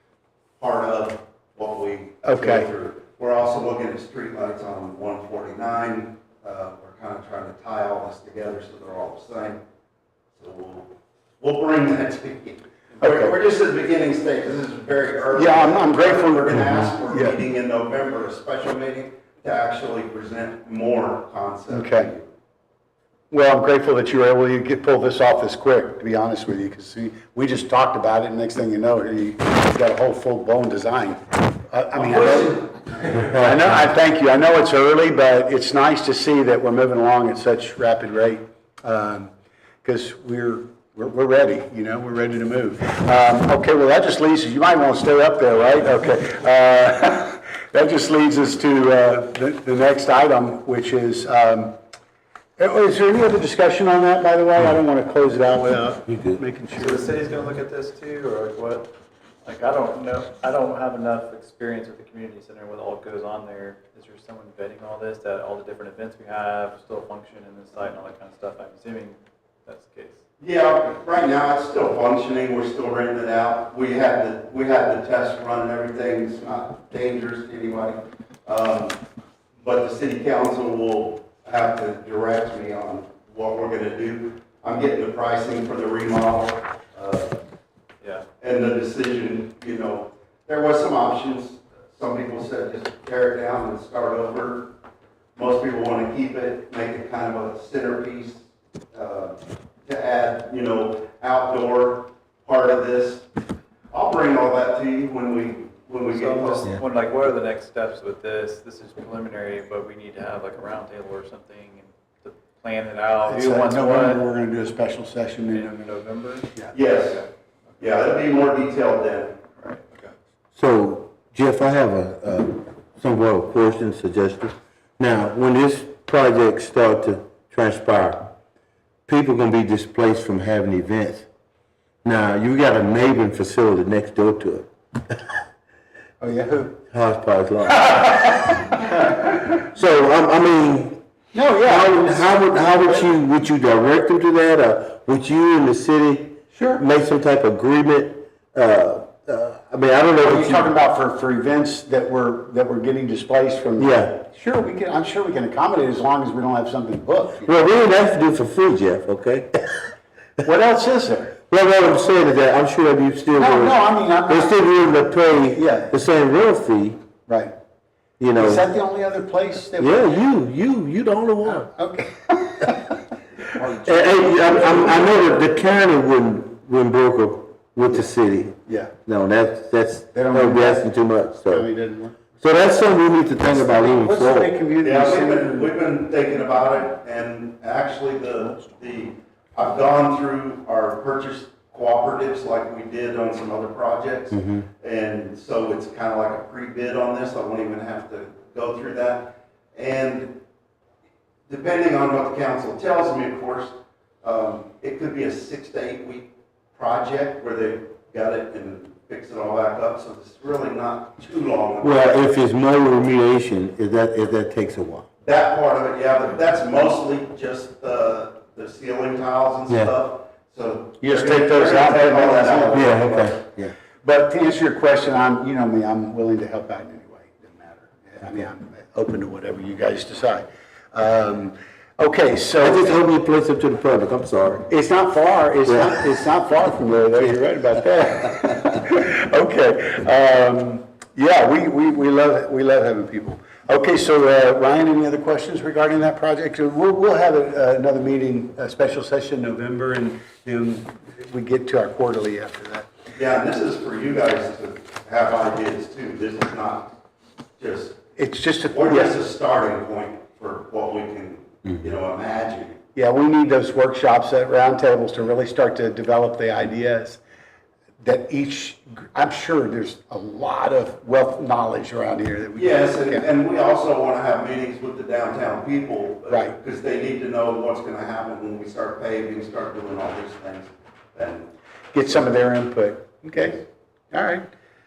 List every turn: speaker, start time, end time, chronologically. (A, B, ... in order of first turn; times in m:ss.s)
0:00.6-0:09.6 A
0:02.2-0:02.7 B
0:10.3-0:22.3 A
0:13.0-0:13.3 B
0:15.3-0:17.4 B
0:21.7-0:22.1 B
0:23.3-0:39.3 B
0:31.9-0:33.4 A
0:39.8-0:51.8 B
0:52.6-0:57.2 B
0:56.1-0:56.4 C
0:56.7-0:58.9 D
0:59.4-1:10.2 D
1:10.4-1:19.0 A
1:19.6-1:27.4 A
1:28.4-1:34.7 A
1:35.4-1:43.3 A
1:43.9-1:46.8 A
1:46.1-1:54.2 D
1:53.2-1:55.7 B
1:55.4-1:56.5 D
1:56.7-1:57.2 A
1:57.8-1:59.4 A
1:59.6-2:00.1 D
2:00.6-2:08.4 C
2:09.1-2:11.3 C
2:12.0-2:15.2 C
2:16.2-2:16.8 B
2:16.9-2:18.6 C
2:18.9-2:19.4 B
2:19.5-2:21.0 C
2:21.3-2:23.1 B
2:21.6-2:30.7 C
2:26.5-2:26.8 B
2:30.2-2:37.6 B
2:33.8-2:34.2 C
2:37.4-2:39.7 C
2:40.4-2:41.3 B
2:41.5-2:47.0 C
2:43.4-2:44.7 B
2:45.5-2:45.9 B
2:47.3-2:47.5 B
2:48.2-2:48.6 C
2:48.3-2:50.1 B
2:49.8-2:51.7 C
2:51.4-2:53.0 B
2:53.6-2:53.9 B
2:53.6-3:01.6 C
2:54.5-2:55.0 B
2:58.6-2:58.9 B
3:00.1-3:00.8 B
3:01.4-3:02.2 B
3:02.4-3:04.5 C
3:03.8-3:05.7 B
3:04.8-3:20.4 A
3:14.3-3:14.6 C
3:21.5-3:32.3 A
3:31.8-3:35.1 C
3:35.2-3:42.9 A
3:41.0-3:43.5 B
3:42.7-3:43.7 C
3:44.0-3:53.0 B
3:52.6-3:54.7 C
3:54.7-4:12.9 B
3:55.6-3:56.0 C
4:13.1-4:16.9 A
4:17.6-4:18.0 A
4:18.2-4:19.2 B
4:18.7-4:22.8 A
4:23.0-4:27.2 B
4:28.0-4:33.3 B
4:32.6-4:41.5 A
4:36.3-4:36.5 B
4:41.9-4:44.4 B